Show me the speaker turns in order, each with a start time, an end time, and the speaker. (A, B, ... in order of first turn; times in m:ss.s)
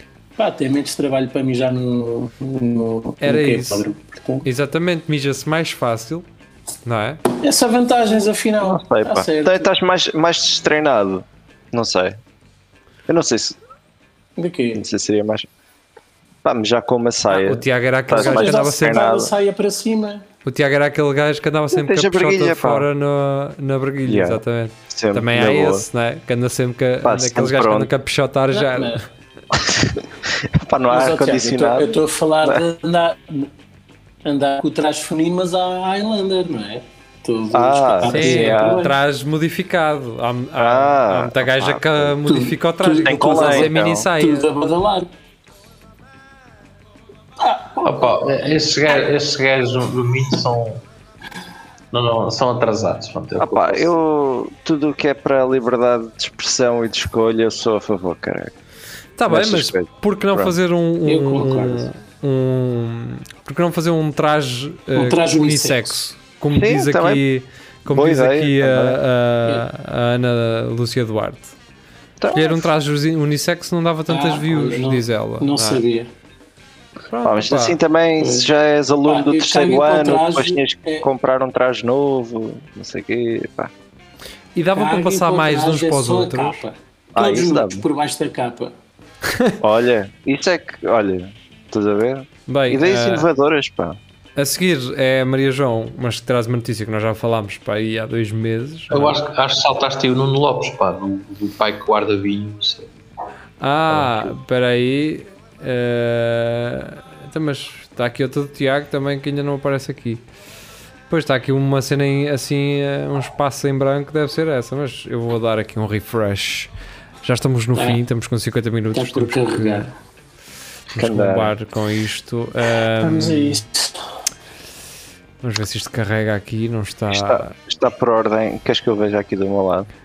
0:00.4-0:04.4 A
0:03.2-0:03.9 B
0:04.4-0:06.2 B
0:06.8-0:07.2 B
0:07.4-0:09.7 A
0:08.6-0:12.2 C
0:13.1-0:13.6 C
0:14.4-0:14.8 A
0:14.7-0:15.5 C
0:16.4-0:19.3 C
0:17.3-0:19.0 B
0:18.1-0:20.2 A
0:20.4-0:29.0 B
0:21.7-0:22.9 C
0:24.0-0:25.8 C
0:27.0-0:27.9 C
0:28.5-0:29.0 A
0:29.5-0:32.6 C
0:30.9-0:33.5 A
0:34.2-0:39.0 A
0:37.5-0:38.8 C
0:38.1-0:44.5 B
0:40.6-0:42.2 C
0:42.2-0:45.1 A
0:43.0-0:44.1 C
0:47.4-0:48.2 A
0:47.8-0:50.8 D
0:51.9-0:53.9 D
0:53.4-0:58.5 C
0:59.2-1:11.5 B
0:59.3-1:00.5 C
1:01.0-1:01.9 A
1:04.9-1:06.0 A
1:06.5-1:07.2 C
1:07.9-1:09.0 C
1:12.2-1:12.6 C
1:12.3-1:15.8 B
1:14.1-1:16.1 A
1:17.1-1:17.8 B
1:17.2-1:23.7 C
1:18.2-1:18.5 A
1:19.0-1:21.1 A
1:24.5-1:26.6 B
1:24.7-1:28.7 A
1:27.1-1:27.8 C
1:29.6-1:34.0 C
1:32.5-1:33.2 B
1:34.4-1:39.3 B
1:38.9-1:42.9 D
1:43.6-1:50.2 B
1:51.1-1:56.7 B
1:57.2-1:59.9 B
1:57.7-1:58.0 A
1:58.9-1:59.9 A
2:00.9-2:03.6 B
2:01.0-2:01.5 C
2:03.0-2:04.0 A
2:05.4-2:07.5 B
2:07.1-2:09.9 C